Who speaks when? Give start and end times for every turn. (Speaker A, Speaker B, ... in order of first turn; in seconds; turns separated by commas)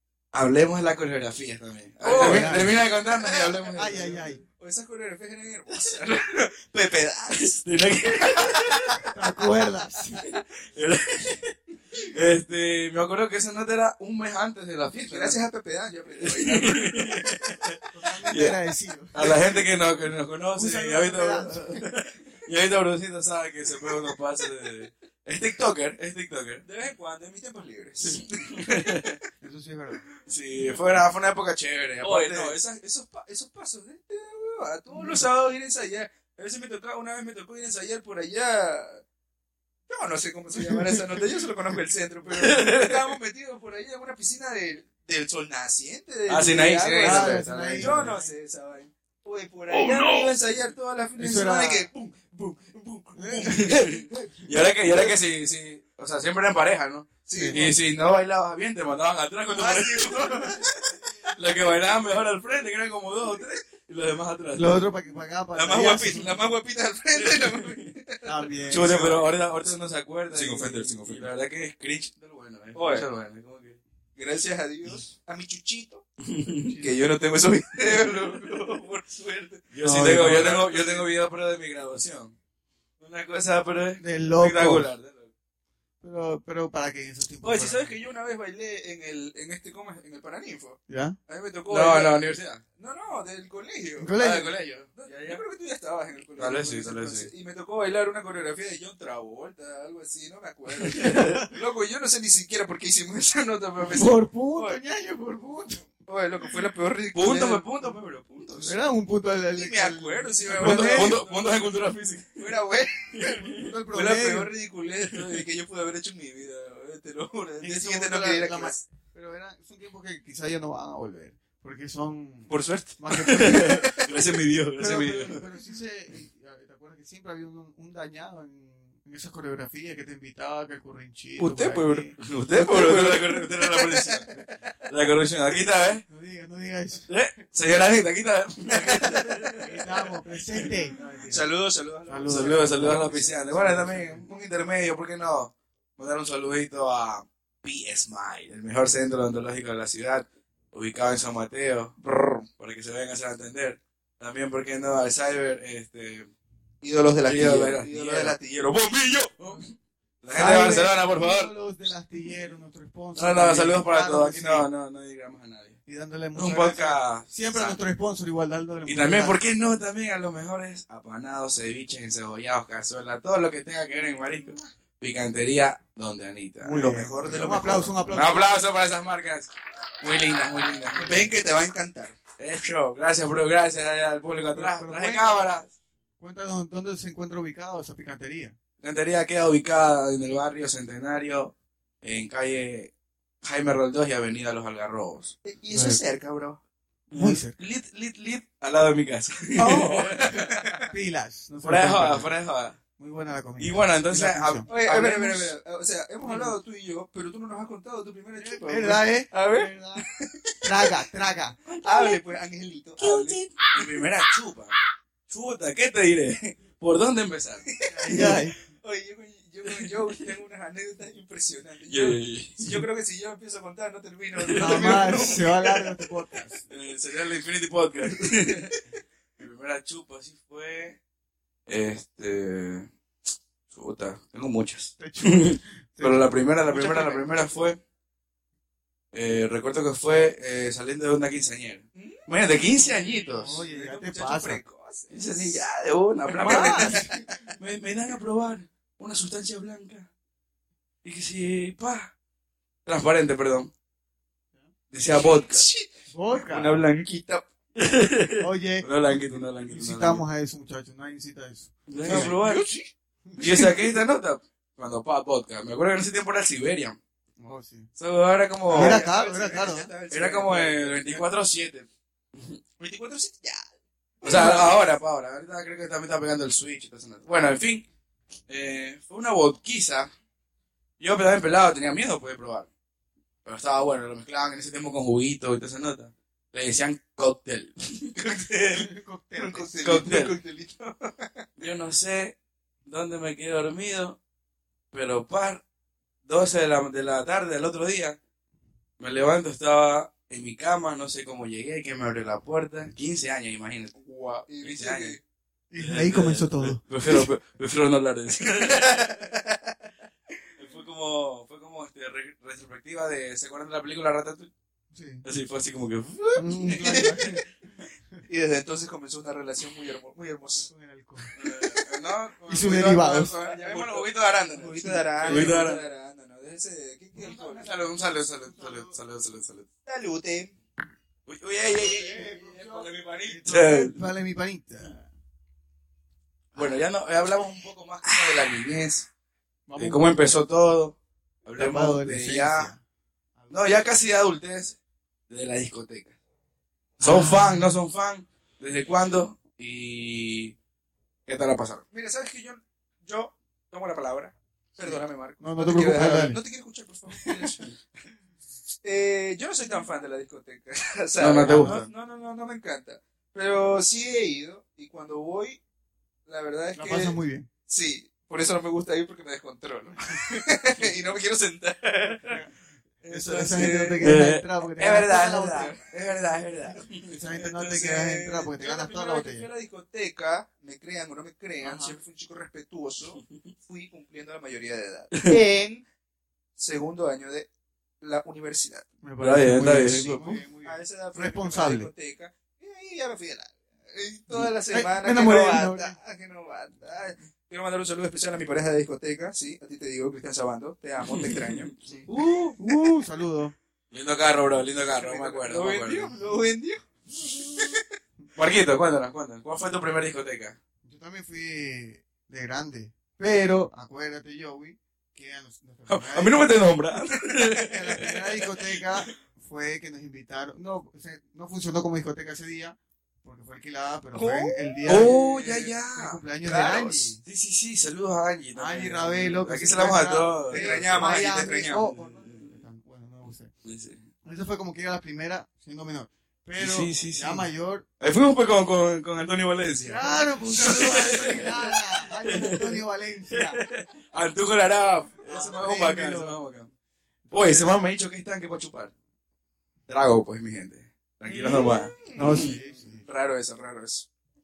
Speaker A: 0.3-4.2, Speaker B: 2.0-3.7, Speaker C: 2.0-2.8, Speaker C: 3.7-4.4, Speaker B: 4.6-9.1, Speaker A: 7.4-9.1, Speaker C: 9.1-10.2, Speaker A: 10.3-15.4, Speaker B: 14.9-17.2, Speaker A: 16.2-18.6, Speaker C: 17.9-19.5, Speaker A: 19.1-26.6, Speaker C: 20.6-21.9, Speaker B: 26.6-29.1, Speaker A: 28.1-29.2, Speaker C: 29.4-30.0, Speaker A: 30.2-32.6, Speaker B: 32.0-39.0, Speaker B: 39.9-54.3, Speaker A: 42.3-43.1, Speaker A: 46.3-48.1, Speaker C: 47.0-48.3, Speaker A: 49.8-50.3, Speaker C: 51.2-51.9, Speaker C: 53.1-53.9, Speaker A: 53.4-64.9, Speaker B: 54.8-55.1, Speaker B: 57.2-57.7, Speaker C: 57.3-57.7, Speaker B: 59.5-60.7, Speaker C: 64.5-66.3, Speaker B: 65.5-69.4, Speaker A: 67.2-67.8, Speaker C: 68.2-69.2, Speaker A: 68.7-73.8, Speaker B: 70.3-71.3, Speaker B: 72.8-73.1, Speaker B: 74.2-76.0, Speaker A: 76.2-76.8, Speaker B: 76.7-81.0, Speaker A: 79.7-82.3, Speaker C: 79.8-80.5, Speaker A: 83.0-85.3, Speaker C: 84.0-84.9, Speaker C: 86.0-88.0, Speaker B: 87.4-92.2, Speaker C: 90.9-91.2, Speaker A: 91.7-92.6, Speaker B: 92.8-94.3, Speaker C: 94.0-94.5, Speaker A: 94.2-95.4, Speaker B: 94.9-104.8, Speaker A: 96.4-97.3, Speaker C: 101.1-101.4, Speaker C: 103.8-105.9, Speaker B: 106.1-107.7, Speaker A: 107.1-108.8, Speaker C: 108.5-111.2, Speaker B: 109.5-111.7, Speaker A: 110.5-112.4, Speaker B: 112.4-118.8, Speaker A: 113.2-113.6, Speaker C: 113.2-114.5, Speaker C: 117.6-124.0, Speaker B: 122.5-124.1, Speaker A: 123.2-125.4, Speaker C: 124.8-132.1, Speaker B: 131.4-134.7, Speaker A: 132.2-136.0, Speaker C: 136.1-137.1, Speaker A: 137.1-139.7, Speaker B: 138.7-139.6, Speaker C: 139.0-141.5, Speaker B: 141.2-143.5, Speaker C: 142.1-144.2, Speaker A: 142.2-151.9, Speaker B: 152.0-152.4, Speaker A: 152.6-156.3, Speaker B: 156.8-158.8, Speaker A: 157.2-159.7, Speaker A: 160.2-161.5, Speaker C: 160.3-164.7, Speaker A: 163.2-165.8, Speaker C: 165.9-169.4, Speaker A: 166.3-167.8, Speaker A: 168.9-181.3, Speaker C: 176.6-178.6, Speaker B: 176.9-178.0, Speaker B: 180.9-182.2, Speaker A: 182.4-185.7, Speaker C: 184.5-185.5, Speaker C: 186.2-188.6, Speaker A: 188.8-192.9, Speaker A: 193.4-195.3, Speaker B: 195.4-196.6, Speaker C: 195.7-196.0, Speaker A: 197.1-200.7, Speaker C: 197.2-197.5, Speaker C: 199.6-200.1, Speaker B: 199.6-200.9, Speaker C: 200.8-202.3, Speaker A: 201.6-202.8, Speaker C: 203.0-204.7, Speaker A: 203.6-205.5, Speaker B: 204.7-211.0, Speaker C: 208.4-210.1, Speaker C: 210.6-211.6, Speaker B: 211.7-214.3, Speaker A: 211.8-212.1, Speaker A: 213.0-214.8, Speaker A: 215.3-218.4, Speaker B: 217.7-225.6, Speaker C: 218.0-218.5, Speaker A: 219.7-220.3, Speaker A: 221.9-222.8, Speaker A: 224.4-225.5, Speaker C: 224.6-226.6, Speaker A: 226.7-228.8, Speaker A: 229.4-231.0, Speaker A: 231.7-232.9, Speaker A: 233.7-237.8, Speaker C: 235.0-237.3, Speaker A: 239.1-243.6, Speaker B: 241.9-242.3, Speaker B: 243.1-245.5, Speaker C: 243.4-244.6, Speaker A: 245.1-247.0, Speaker B: 246.3-247.5, Speaker C: 246.4-247.1, Speaker A: 247.6-250.1, Speaker A: 251.0-252.1, Speaker A: 252.9-253.7, Speaker A: 254.9-255.6, Speaker B: 255.1-257.5, Speaker C: 256.1-256.8, Speaker A: 257.8-260.2, Speaker C: 258.4-262.4, Speaker A: 261.9-262.7, Speaker B: 262.0-262.9, Speaker C: 263.3-263.7, Speaker A: 263.4-267.0, Speaker B: 263.4-263.7, Speaker C: 267.4-267.9, Speaker A: 268.0-269.0, Speaker C: 268.7-269.9, Speaker B: 268.7-271.3, Speaker A: 270.1-272.6, Speaker B: 272.8-273.7, Speaker B: 274.2-274.9, Speaker A: 274.2-277.9, Speaker A: 278.5-280.1, Speaker A: 281.0-282.7, Speaker A: 283.4-288.1, Speaker B: 288.2-291.4, Speaker C: 288.7-290.0, Speaker A: 289.8-290.3, Speaker A: 291.6-292.4, Speaker A: 292.9-294.2, Speaker A: 294.9-295.6, Speaker A: 296.2-298.2, Speaker A: 299.0-305.1, Speaker B: 304.5-305.2, Speaker C: 305.7-306.8, Speaker A: 305.8-309.1, Speaker B: 308.4-309.8, Speaker A: 310.6-314.5, Speaker C: 314.9-315.2, Speaker A: 315.2-317.4, Speaker C: 316.4-317.4, Speaker B: 316.6-317.2, Speaker B: 318.2-320.7, Speaker C: 320.7-321.3, Speaker B: 321.2-321.9, Speaker A: 321.4-325.8, Speaker C: 322.5-323.3, Speaker B: 322.6-327.6, Speaker C: 324.8-325.6, Speaker A: 327.2-329.7, Speaker C: 327.6-328.9, Speaker B: 329.9-330.5, Speaker A: 331.2-334.0, Speaker C: 331.7-335.0, Speaker B: 333.5-333.8, Speaker A: 336.5-339.1, Speaker C: 339.7-340.0, Speaker A: 339.8-342.7, Speaker C: 341.6-342.8, Speaker C: 343.4-343.6, Speaker A: 343.5-344.8, Speaker A: 345.3-346.1, Speaker C: 347.0-347.7, Speaker A: 347.0-350.5, Speaker A: 351.3-351.8, Speaker B: 351.9-357.7, Speaker C: 354.8-356.4, Speaker B: 358.8-365.6, Speaker A: 361.2-361.8, Speaker C: 361.4-361.9, Speaker B: 366.2-372.4, Speaker C: 366.8-367.5, Speaker C: 372.2-372.5, Speaker B: 373.0-385.9, Speaker C: 373.0-375.8, Speaker A: 374.0-374.4, Speaker C: 377.0-379.5, Speaker C: 381.6-382.0, Speaker B: 386.6-387.5, Speaker B: 388.0-388.9, Speaker C: 389.0-391.9, Speaker A: 389.2-390.4, Speaker B: 390.6-402.8, Speaker C: 394.7-395.9, Speaker A: 401.0-401.7, Speaker C: 402.6-403.5, Speaker A: 403.9-406.1, Speaker B: 404.9-407.9, Speaker A: 408.4-410.6, Speaker C: 410.8-416.6, Speaker A: 415.9-419.0, Speaker C: 417.6-425.2, Speaker B: 424.1-425.7, Speaker A: 424.9-426.2, Speaker C: 425.9-427.2, Speaker B: 426.4-427.1, Speaker A: 427.2-431.3, Speaker C: 428.5-433.5, Speaker B: 430.5-431.9, Speaker A: 432.0-432.4, Speaker A: 433.6-434.1, Speaker C: 434.2-437.9, Speaker A: 436.6-437.4, Speaker A: 438.0-446.7, Speaker C: 439.8-443.6, Speaker C: 445.2-446.4, Speaker C: 447.3-447.7, Speaker A: 447.3-448.9, Speaker A: 449.9-452.5, Speaker B: 451.2-454.1, Speaker C: 452.1-453.0